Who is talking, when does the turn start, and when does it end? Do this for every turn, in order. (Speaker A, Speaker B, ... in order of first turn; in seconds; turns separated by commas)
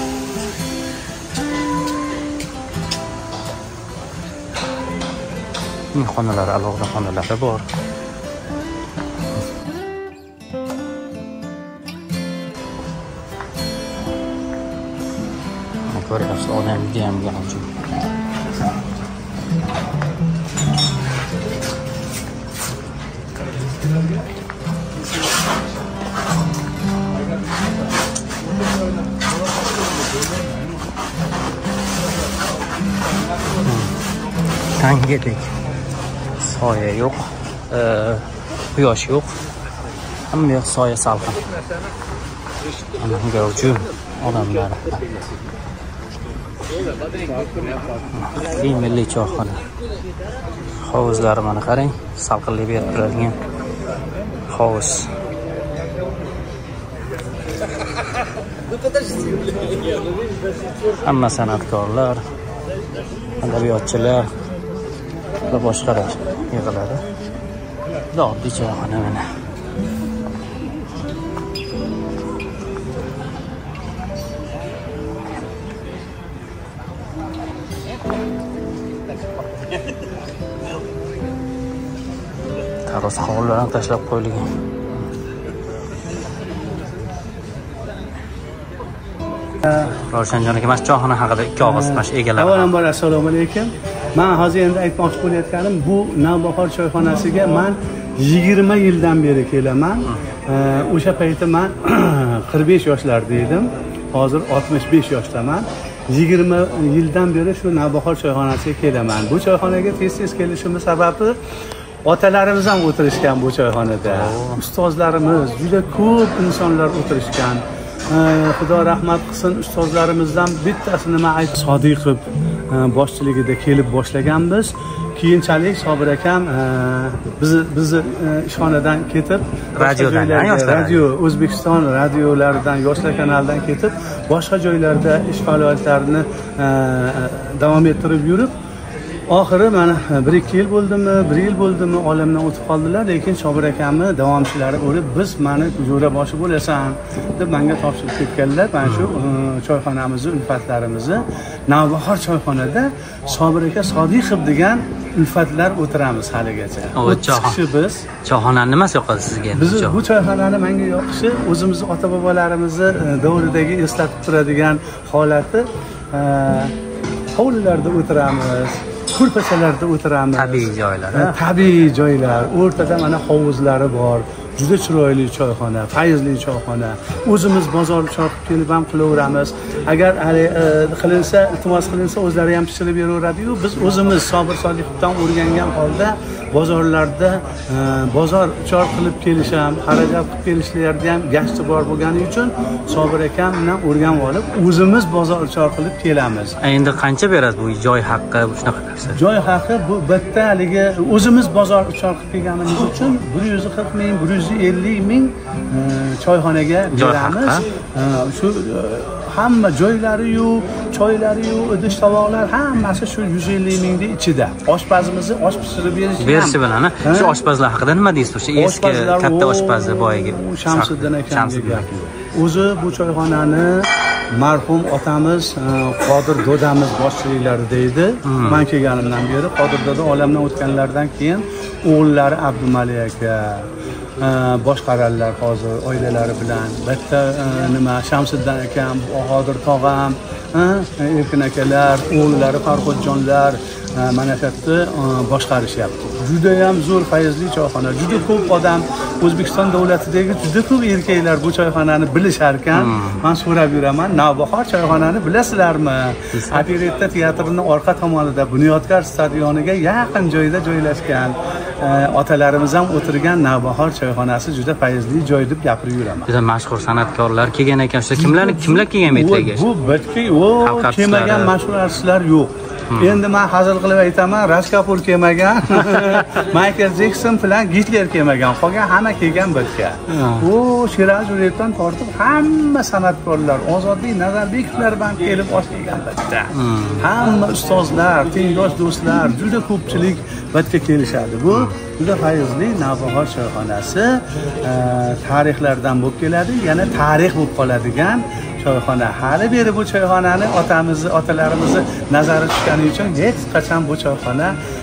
Speaker A: 5.9-7.7, Speaker A: 15.9-17.7, Speaker A: 33.6-34.1, Speaker A: 34.6-35.5, Speaker A: 36.4-39.4, Speaker A: 40.3-41.4, Speaker A: 43.0-45.0, Speaker A: 48.1-49.7, Speaker A: 50.8-53.4, Speaker A: 54.5-55.1, Speaker A: 60.9-62.2, Speaker A: 63.4-64.3, Speaker A: 65.5-67.0, Speaker A: 68.1-69.2, Speaker A: 82.9-84.5, Speaker B: 89.7-89.9, Speaker A: 89.9-92.7, Speaker B: 91.6-111.4, Speaker B: 112.0-138.5, Speaker A: 114.0-114.6, Speaker A: 129.8-131.1, Speaker B: 139.3-158.1, Speaker A: 148.8-149.2, Speaker A: 156.9-157.6, Speaker A: 158.2-160.1, Speaker B: 159.5-166.7, Speaker B: 167.3-196.6, Speaker A: 170.3-171.4, Speaker A: 196.6-199.2, Speaker B: 199.1-217.4, Speaker A: 206.9-207.7, Speaker A: 216.2-221.9, Speaker B: 218.6-266.3, Speaker A: 228.2-228.6, Speaker A: 252.7-253.2, Speaker A: 256.3-256.6, Speaker A: 266.3-269.7, Speaker B: 268.2-304.6, Speaker A: 270.6-271.5, Speaker A: 272.9-273.2, Speaker A: 280.1-280.5, Speaker A: 286.5-287.1